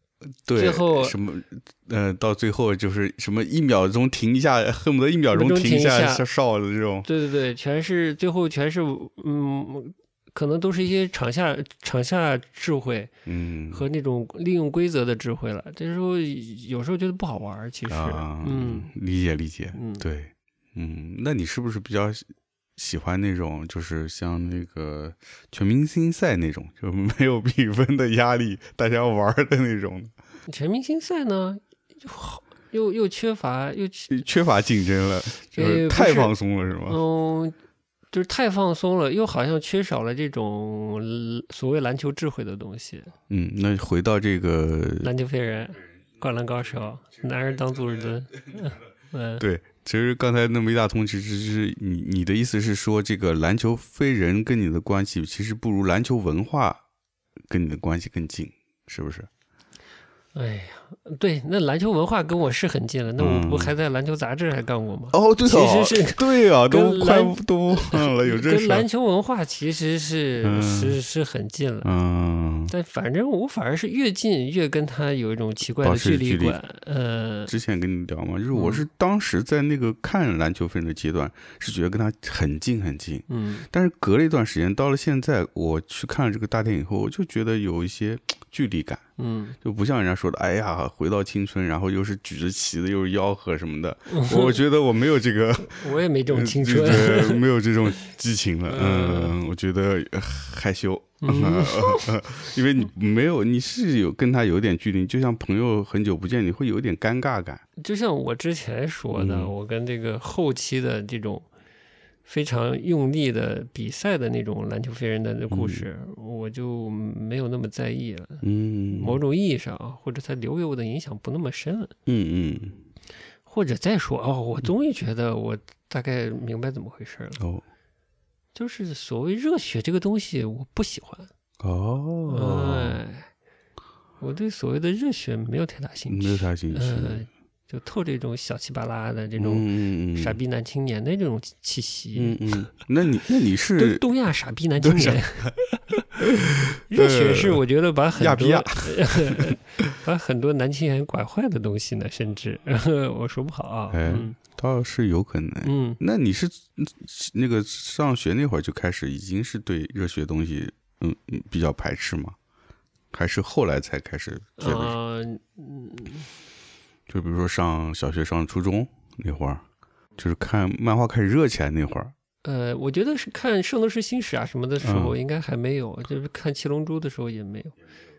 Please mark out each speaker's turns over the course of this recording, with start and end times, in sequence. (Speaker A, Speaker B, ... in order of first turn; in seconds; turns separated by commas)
Speaker A: 0.3-7.1, Speaker B: 0.6-1.2, Speaker B: 5.3-6.2, Speaker B: 7.0-13.1, Speaker A: 13.2-13.8, Speaker B: 13.7-18.9, Speaker A: 17.9-22.2, Speaker B: 19.7-20.1, Speaker A: 22.8-30.1, Speaker B: 30.5-34.1, Speaker A: 34.1-37.0, Speaker B: 35.5-36.3, Speaker B: 36.9-37.5, Speaker B: 38.1-43.1, Speaker A: 43.3-45.1, Speaker B: 45.0-49.4, Speaker A: 49.4-56.8, Speaker A: 57.5-59.3, Speaker B: 60.3-71.9, Speaker A: 63.2-63.7, Speaker A: 65.1-68.8, Speaker A: 70.4-71.0, Speaker A: 71.8-72.7, Speaker B: 72.7-77.5, Speaker A: 75.8-76.6, Speaker A: 77.5-89.0, Speaker B: 78.5-78.8, Speaker B: 83.3-83.7, Speaker B: 89.2-89.5, Speaker A: 89.6-107.6, Speaker B: 94.1-94.6, Speaker B: 95.6-97.4, Speaker B: 98.7-99.3, Speaker B: 101.2-102.1, Speaker B: 107.8-111.5, Speaker A: 109.1-109.5, Speaker B: 112.2-121.9, Speaker A: 115.5-115.8, Speaker A: 118.4-119.2, Speaker A: 122.1-122.8, Speaker B: 123.5-127.4, Speaker A: 127.4-127.6, Speaker B: 128.5-131.3, Speaker A: 131.6-133.0, Speaker B: 132.3-133.3, Speaker B: 134.2-142.4, Speaker A: 136.1-137.2, Speaker A: 139.4-140.4, Speaker A: 142.2-144.0, Speaker B: 143.8-146.1, Speaker A: 144.8-145.5, Speaker A: 146.2-147.6, Speaker B: 146.9-154.4, Speaker A: 148.2-149.8, Speaker A: 153.9-162.4, Speaker B: 155.6-156.0, Speaker A: 163.1-164.9, Speaker B: 164.6-166.3, Speaker A: 167.1-169.6, Speaker A: 170.2-172.1, Speaker B: 172.4-177.8, Speaker A: 174.8-175.2